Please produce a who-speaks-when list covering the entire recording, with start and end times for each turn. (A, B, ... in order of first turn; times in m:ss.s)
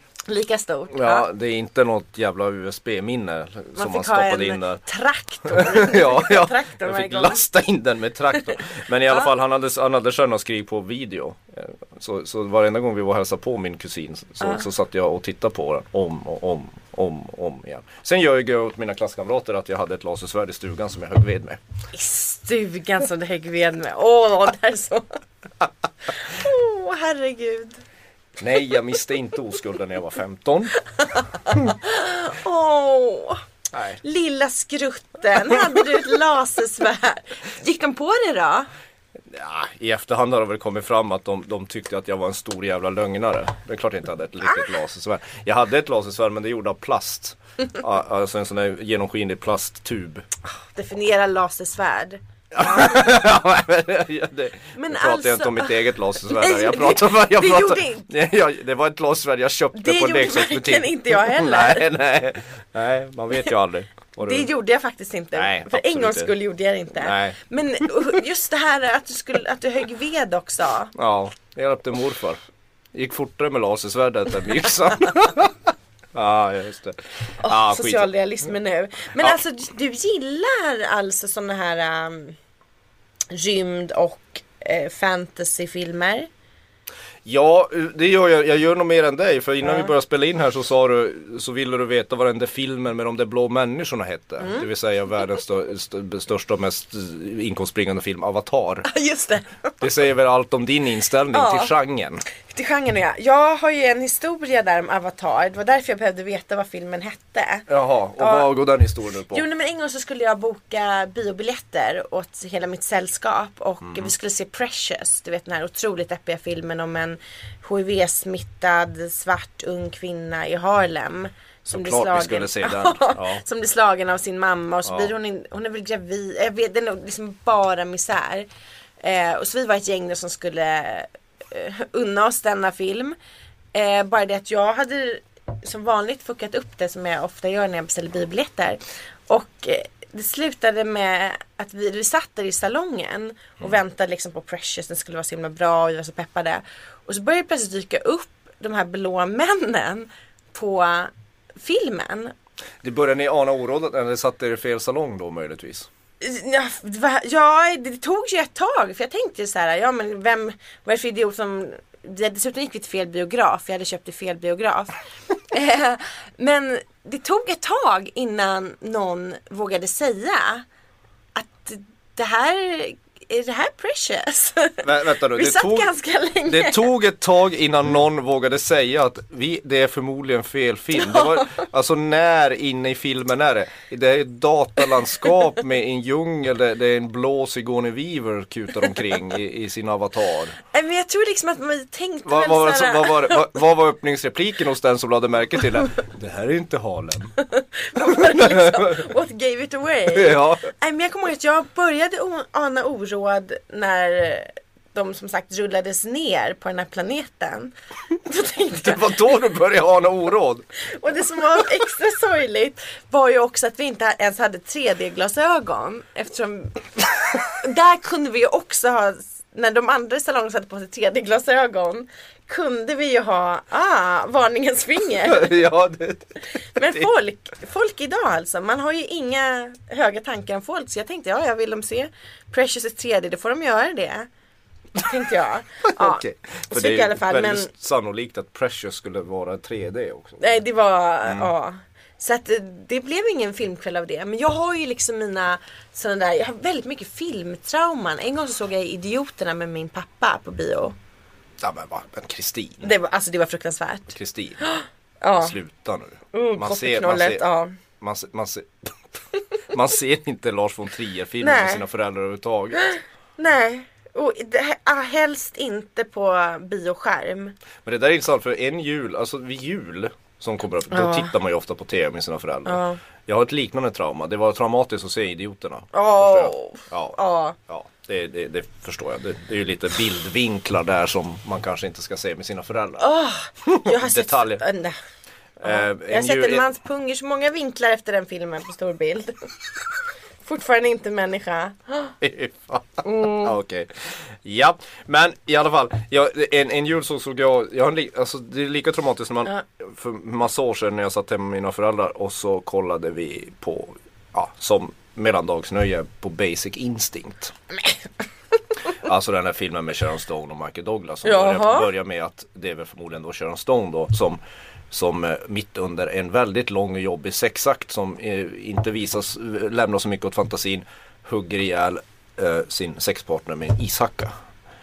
0:00.3-0:01.3 A
0:00.9-0:04.8 B
0:03.8-0:07.4 A
0:05.4-0:21.6 B
0:21.9-0:25.2 A
0:26.1-0:27.8 A
0:28.4-0:30.8 B
0:31.1-0:33.4 A
0:33.7-0:34.0 B
0:34.0-0:38.7 A
0:39.3-0:50.2 B
0:50.5-0:53.0 A
0:52.5-1:04.5 B
0:54.7-0:58.1 A
0:59.7-1:01.9 A
1:04.2-1:10.9 A
1:05.4-1:06.3 B
1:07.0-1:07.4 B
1:11.0-1:12.4 B
1:12.9-1:15.5 B
1:16.1-1:18.1 B
1:17.4-1:22.4 A
1:23.3-1:26.3 A
1:27.2-1:38.9 B
1:38.9-1:39.8 A
1:39.8-1:42.2 B
1:41.3-1:41.7 A
1:42.5-1:48.5 A
1:47.7-1:49.4 B
1:49.3-2:08.5 A
1:53.8-1:54.1 B
2:01.7-2:03.4 B
2:04.8-2:05.1 B
2:09.0-2:13.2 A
2:13.7-2:32.3 A
2:32.8-2:35.9 B
2:36.2-2:44.9 A
2:45.4-2:50.7 A
2:51.4-2:56.9 A
2:54.8-2:55.9 B
2:56.5-3:10.6 B
3:00.9-3:01.7 A
3:10.7-3:13.6 A
3:12.2-3:17.4 B
3:17.4-3:29.1 A
3:18.0-3:19.1 B
3:20.1-3:20.7 B
3:28.8-3:30.7 B
3:30.8-3:45.6 A
3:45.3-3:47.1 B
3:46.7-3:54.3 A
3:55.0-3:57.7 A
3:56.0-4:00.6 B
4:00.4-4:11.0 A
4:01.2-4:01.5 B
4:11.6-4:12.9 B
4:12.8-4:15.6 A
4:14.1-4:14.7 B
4:15.4-4:17.4 B
4:16.3-4:17.8 A
4:18.0-4:19.2 B
4:19.7-4:22.9 B
4:21.4-4:21.8 A
4:23.4-4:27.6 A
4:27.8-4:43.1 B
4:30.9-4:31.3 A
4:32.7-4:33.0 A
4:35.9-4:37.6 A
4:43.0-4:45.0 A
4:43.6-4:44.6 B
4:45.6-4:46.7 B
4:45.6-4:49.5 A
4:50.4-4:52.1 A
4:52.2-5:07.5 B
4:53.0-4:53.5 A
5:08.9-5:14.4 B
5:11.2-5:11.9 A
5:14.9-5:24.3 B